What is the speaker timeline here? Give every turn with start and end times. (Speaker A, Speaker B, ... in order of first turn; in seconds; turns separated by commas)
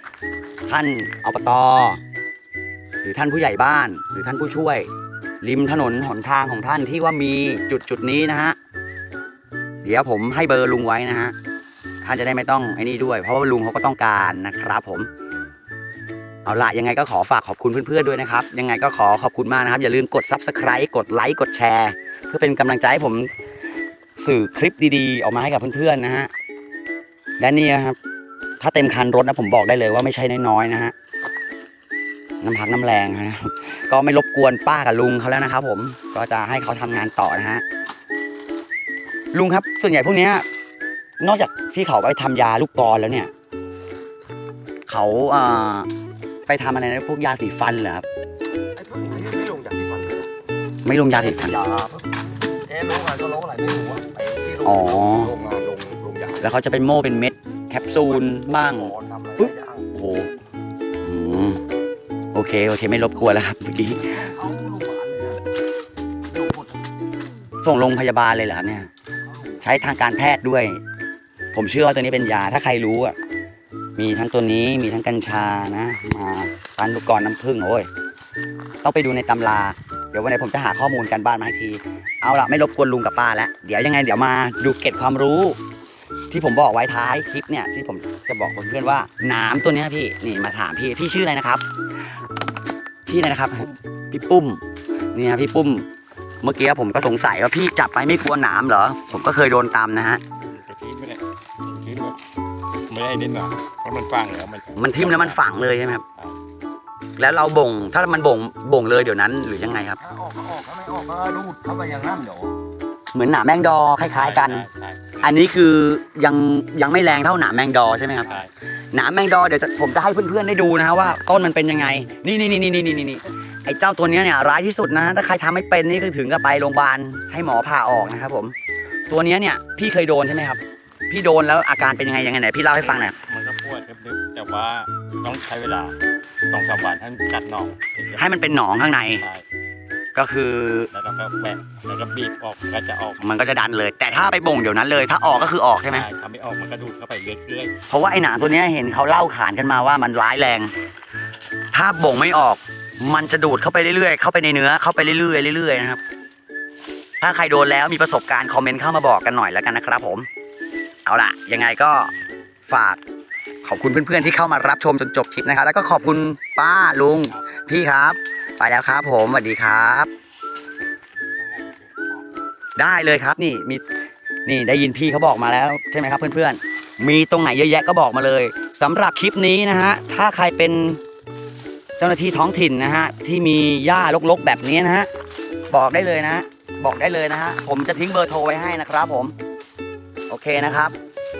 Speaker A: 0.7-2.0, Speaker A: 3.0-4.9, Speaker A: 5.4-8.6, Speaker A: 9.8-11.3, Speaker A: 12.0-15.1, Speaker A: 16.4-23.3, Speaker A: 24.2-26.3, Speaker A: 27.4-28.0, Speaker A: 28.6-30.9, Speaker A: 32.4-37.6, Speaker A: 39.3-40.5, Speaker A: 41.2-43.3, Speaker A: 44.9-45.9, Speaker A: 46.5-48.0, Speaker B: 48.7-50.3, Speaker A: 50.8-51.6, Speaker B: 51.5-56.5, Speaker A: 54.6-55.3, Speaker A: 56.4-60.3, Speaker B: 58.0-59.8, Speaker A: 61.0-61.6, Speaker A: 62.3-64.3, Speaker B: 64.2-65.4, Speaker B: 66.3-66.7, Speaker A: 67.6-68.9, Speaker A: 69.6-70.8, Speaker A: 71.5-73.2, Speaker A: 74.0-77.9, Speaker A: 78.8-85.6, Speaker A: 86.3-91.6, Speaker A: 93.0-94.6, Speaker A: 95.1-95.9, Speaker A: 96.4-100.2, Speaker C: 100.4-102.2, Speaker C: 102.9-105.4, Speaker A: 104.7-106.0, Speaker A: 107.2-110.0, Speaker B: 110.0-112.6, Speaker A: 113.1-114.6, Speaker C: 114.1-115.3, Speaker A: 115.2-128.5, Speaker A: 129.1-133.2, Speaker C: 132.8-135.9, Speaker C: 136.5-138.2, Speaker A: 138.2-139.2, Speaker A: 140.1-140.9, Speaker C: 140.9-143.2, Speaker A: 143.2-146.1, Speaker C: 145.9-147.7, Speaker A: 147.9-150.7, Speaker A: 151.7-156.0, Speaker A: 157.2-160.3, Speaker A: 161.0-162.1, Speaker A: 162.6-163.0, Speaker A: 163.6-170.1, Speaker C: 171.4-172.1, Speaker A: 172.8-173.8, Speaker A: 174.4-181.0, Speaker A: 182.0-185.1, Speaker A: 185.7-189.3, Speaker A: 190.3-190.9